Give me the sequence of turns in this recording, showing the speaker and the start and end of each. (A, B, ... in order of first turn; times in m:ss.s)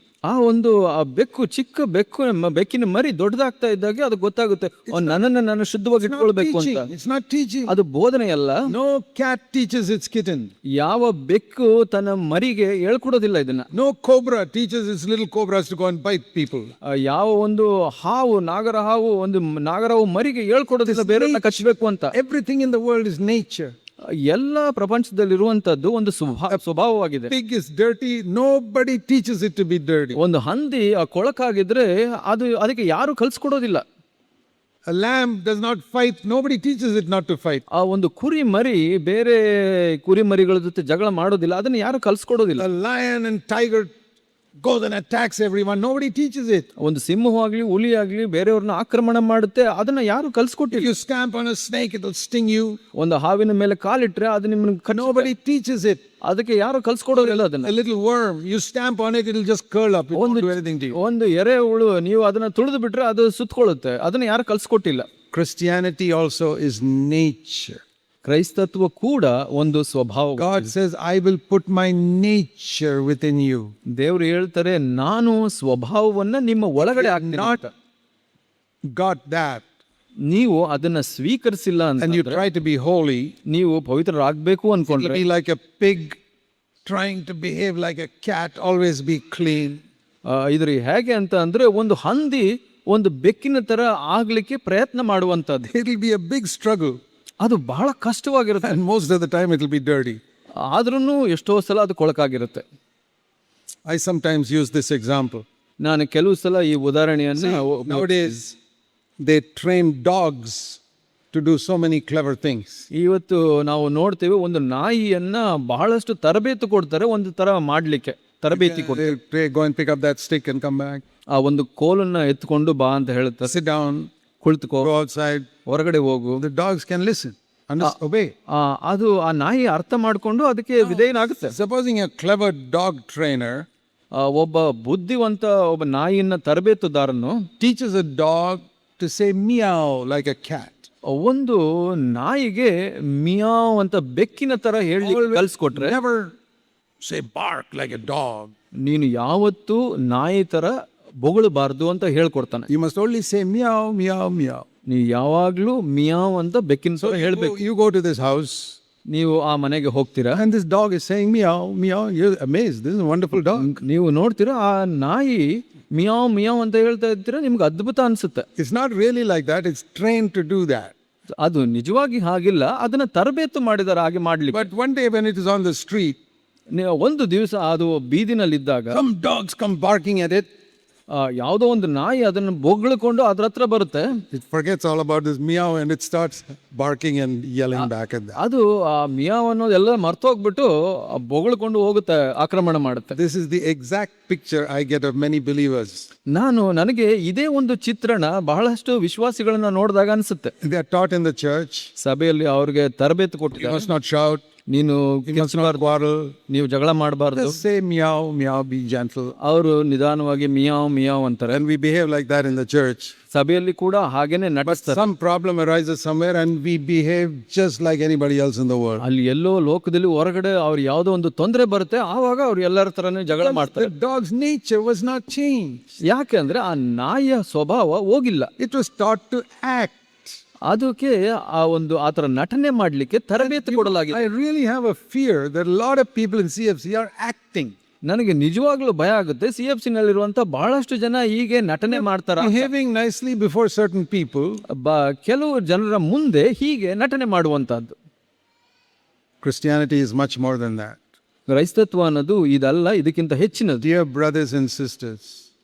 0:00.3-0:06.9 A
0:04.9-0:05.2 B
0:06.0-0:07.7 B
0:07.7-0:08.7 A
0:08.7-0:10.5 B
0:10.8-0:13.7 A
0:13.7-0:16.7 B
0:16.9-0:22.1 A
0:20.8-0:21.5 B
0:22.1-0:23.7 B
0:24.1-0:27.3 A
0:27.3-0:30.2 B
0:30.2-0:33.8 A
0:34.9-0:37.6 B
0:37.7-0:42.6 A
0:42.6-0:43.9 B
0:44.6-0:46.7 B
0:46.8-0:50.9 A
0:50.7-0:52.8 B
0:52.9-0:55.3 A
0:54.9-0:56.0 B
0:56.2-0:57.7 A
0:57.2-1:01.0 B
1:00.1-1:05.1 A
1:05.3-1:07.8 B
1:08.2-1:10.7 A
1:10.4-1:13.7 B
1:14.0-1:17.7 A
1:16.8-1:17.6 B
1:18.9-1:19.6 B
1:20.3-1:22.4 A
1:22.0-1:23.3 B
1:23.5-1:25.2 A
1:24.9-1:26.2 B
1:26.8-1:29.8 B
1:30.3-1:35.7 A
1:35.7-1:37.0 B
1:37.4-1:38.8 A
1:38.6-1:40.2 B
1:40.6-1:42.6 A
1:43.8-1:45.4 B
1:45.8-1:48.3 A
1:47.4-1:48.6 B
1:49.2-1:50.8 B
1:51.3-1:52.8 B
1:52.9-1:59.1 A
1:58.5-2:01.0 B
2:01.3-2:03.5 A
2:03.4-2:04.1 B
2:04.4-2:04.9 A
2:04.8-2:05.5 B
2:05.6-2:06.4 A
2:06.4-2:08.3 B
2:08.5-2:11.5 A
2:10.8-2:13.7 B
2:14.1-2:17.4 A
2:17.6-2:20.9 B
2:21.1-2:25.9 A
2:25.0-2:26.3 B
2:27.0-2:28.5 B
2:28.8-2:32.7 A
2:32.7-2:34.6 B
2:34.9-2:37.6 A
2:37.0-2:38.8 B
2:39.1-2:40.4 A
2:40.3-2:43.7 B
2:43.5-2:48.4 A
2:48.6-2:50.9 B
2:51.4-2:54.7 A
2:54.5-2:56.2 B
2:56.7-2:59.0 A
2:58.9-3:00.5 B
3:01.1-3:04.2 A
3:04.3-3:08.4 B
3:07.8-3:13.2 A
3:13.1-3:16.0 B
3:16.3-3:20.5 A
3:20.6-3:21.9 B
3:22.0-3:23.9 A
3:23.5-3:24.4 B
3:24.7-3:25.8 A
3:25.2-3:26.3 B
3:26.5-3:27.6 A
3:27.3-3:29.3 B
3:29.4-3:31.6 A
3:31.5-3:33.1 B
3:33.3-3:35.0 A
3:34.6-3:39.0 B
3:39.0-3:43.9 A
3:43.4-3:45.8 B
3:46.1-3:48.5 A
3:48.6-3:50.4 B
3:50.7-3:54.2 A
3:53.4-3:57.7 B
3:58.1-4:02.7 A
4:01.9-4:04.6 B
4:04.7-4:07.9 A
4:09.4-4:11.0 B
4:11.5-4:13.8 A
4:13.8-4:15.4 B